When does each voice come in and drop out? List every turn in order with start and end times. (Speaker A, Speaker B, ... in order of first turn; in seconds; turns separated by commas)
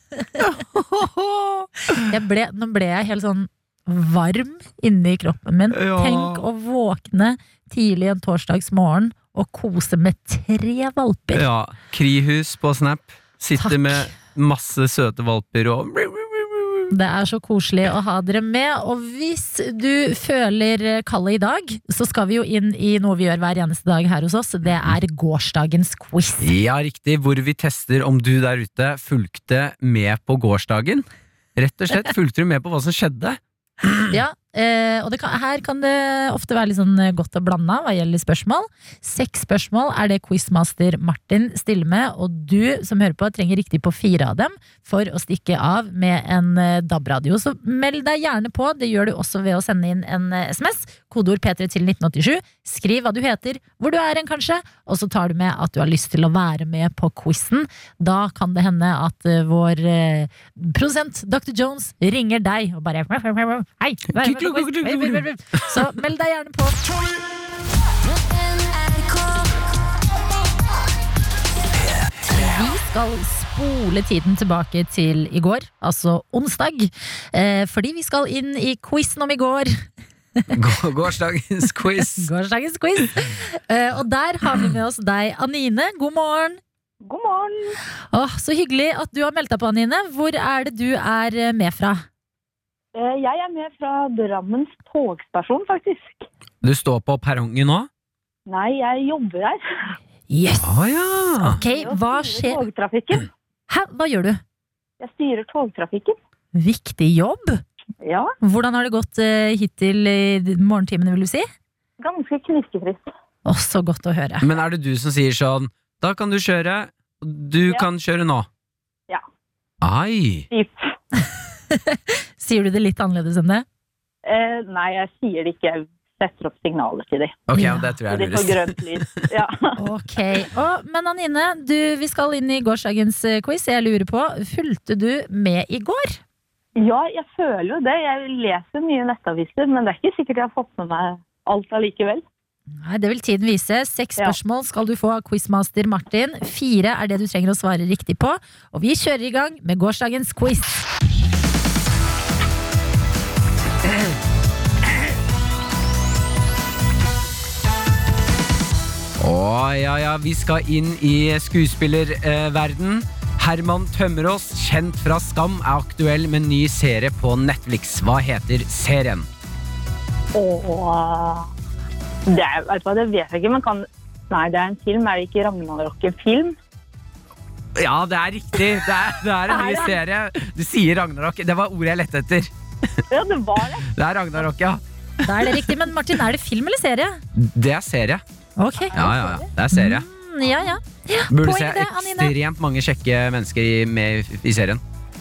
Speaker A: 0.4-2.1, Speaker B: 2.0-11.4, Speaker A: 5.7-6.5, Speaker A: 11.3-16.9, Speaker B: 13.6-14.1, Speaker B: 16.9-26.5, Speaker A: 26.4-34.2, Speaker B: 34.1-66.8, Speaker A: 64.1-65.9, Speaker B: 72.2-79.7, Speaker A: 80.5-82.3, Speaker B: 82.1-86.6, Speaker C: 87.0-87.8, Speaker B: 88.1-92.0, Speaker C: 93.0-96.2, Speaker A: 96.6-97.9, Speaker C: 98.5-100.0, Speaker B: 100.3-100.7, Speaker A: 100.6-101.6, Speaker B: 101.4-102.6, Speaker C: 101.4-103.3, Speaker B: 103.7-104.4, Speaker C: 105.0-106.2, Speaker B: 106.5-107.6, Speaker C: 108.0-108.3, Speaker B: 108.4-111.5, Speaker C: 112.0-113.1, Speaker B: 113.5-114.5, Speaker A: 114.4-118.5, Speaker A: 119.8-120.5, Speaker C: 120.5-120.9, Speaker B: 121.7-123.7, Speaker C: 124.3-127.4, Speaker A: 127.5-129.0, Speaker B: 127.5-127.9, Speaker C: 128.1-129.8, Speaker B: 129.8-136.2, Speaker C: 136.8-142.2, Speaker B: 142.8-150.8, Speaker A: 159.2-169.3, Speaker C: 170.3-171.5, Speaker C: 172.3-176.6, Speaker A: 177.8-183.0, Speaker B: 179.5-179.9, Speaker C: 183.1-183.9, Speaker A: 183.9-184.8, Speaker B: 185.2-187.2, Speaker A: 185.3-185.7, Speaker A: 187.3-188.2, Speaker B: 188.6-189.0, Speaker A: 188.9-190.1, Speaker C: 188.9-189.5, Speaker B: 189.7-192.3, Speaker A: 191.3-194.8